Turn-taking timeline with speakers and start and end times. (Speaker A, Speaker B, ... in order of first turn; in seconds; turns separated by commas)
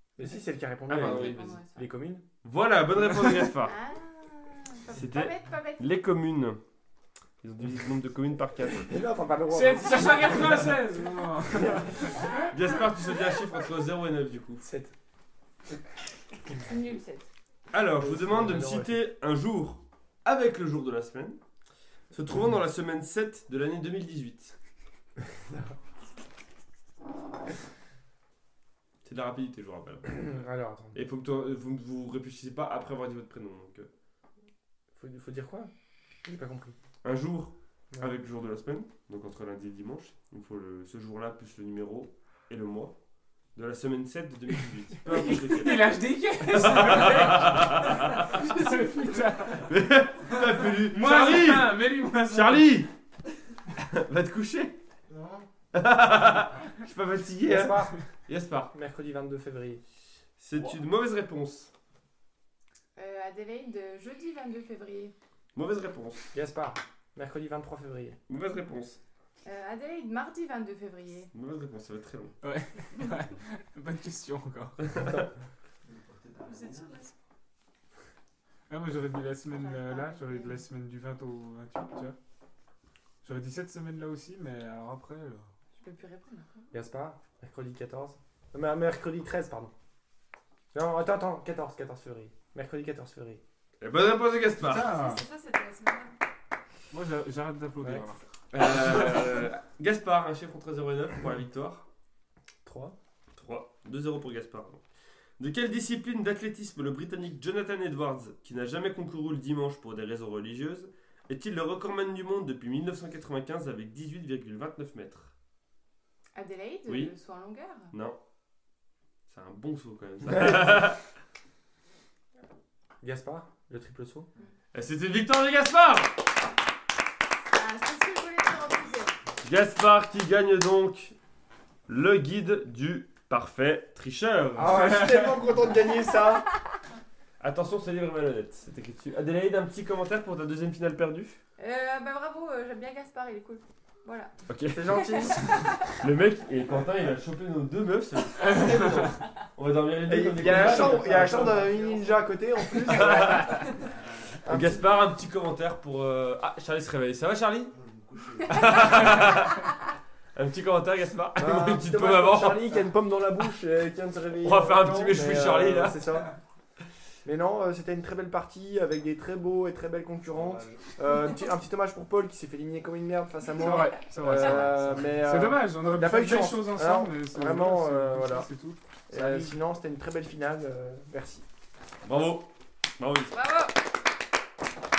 Speaker A: 0.2-2.2, Speaker B: 0.9-1.6, Speaker C: 0.9-1.9, Speaker B: 2.4-3.8, Speaker C: 3.6-5.9, Speaker B: 4.9-6.6, Speaker B: 7.4-8.9, Speaker A: 8.7-10.8, Speaker D: 9.5-12.5, Speaker A: 11.6-12.1, Speaker B: 12.5-14.6, Speaker A: 14.6-14.9, Speaker C: 16.6-17.3, Speaker B: 17.7-21.4, Speaker A: 18.0-19.0, Speaker B: 22.1-24.6, Speaker A: 25.3-25.8, Speaker B: 29.1-30.4, Speaker A: 30.1-31.0, Speaker B: 30.9-33.9, Speaker A: 34.9-35.7, Speaker A: 36.2-36.8, Speaker B: 37.0-43.0, Speaker B: 43.5-48.4, Speaker D: 45.0-49.7, Speaker B: 49.7-52.9, Speaker D: 50.6-52.8, Speaker B: 53.9-54.8, Speaker E: 55.1-55.5, Speaker B: 55.7-58.7, Speaker A: 57.5-58.0, Speaker A: 58.7-59.8, Speaker B: 60.4-61.7, Speaker C: 63.0-65.2, Speaker B: 65.5-66.3, Speaker A: 66.3-68.2, Speaker B: 68.3-69.0, Speaker C: 69.4-71.3, Speaker B: 71.3-72.3, Speaker D: 72.4-75.1, Speaker B: 74.8-75.3, Speaker E: 75.8-77.0, Speaker F: 76.5-77.1, Speaker D: 78.7-82.2, Speaker C: 79.5-80.6, Speaker D: 83.2-85.5, Speaker C: 85.8-86.5, Speaker A: 86.7-89.7, Speaker A: 90.7-93.4, Speaker B: 93.8-95.0, Speaker D: 94.6-95.2, Speaker F: 94.9-96.2, Speaker D: 96.9-98.2, Speaker A: 97.8-98.0, Speaker B: 98.5-101.9, Speaker D: 98.8-99.2, Speaker A: 102.6-103.0, Speaker B: 103.4-104.8, Speaker B: 105.4-115.3, Speaker C: 116.3-117.9, Speaker B: 116.9-117.1, Speaker B: 117.9-118.2, Speaker B: 119.3-121.0, Speaker A: 123.0-124.3, Speaker B: 124.7-126.1, Speaker C: 127.5-129.1, Speaker B: 129.4-131.2, Speaker B: 131.9-135.3, Speaker A: 134.6-136.5, Speaker B: 137.4-141.4, Speaker C: 141.6-144.3, Speaker B: 144.5-145.1, Speaker A: 144.7-145.7, Speaker C: 144.9-145.7, Speaker B: 145.9-151.7, Speaker D: 148.4-149.1, Speaker A: 150.1-153.7, Speaker E: 150.4-152.3, Speaker B: 152.9-153.8, Speaker A: 154.4-154.8, Speaker B: 154.5-157.7, Speaker E: 157.7-159.3, Speaker B: 158.5-159.6, Speaker B: 160.3-162.7, Speaker A: 161.3-166.3, Speaker B: 164.4-166.0, Speaker A: 167.2-178.5, Speaker D: 173.6-179.6, Speaker A: 179.1-181.4, Speaker B: 182.0-183.4, Speaker C: 183.3-183.7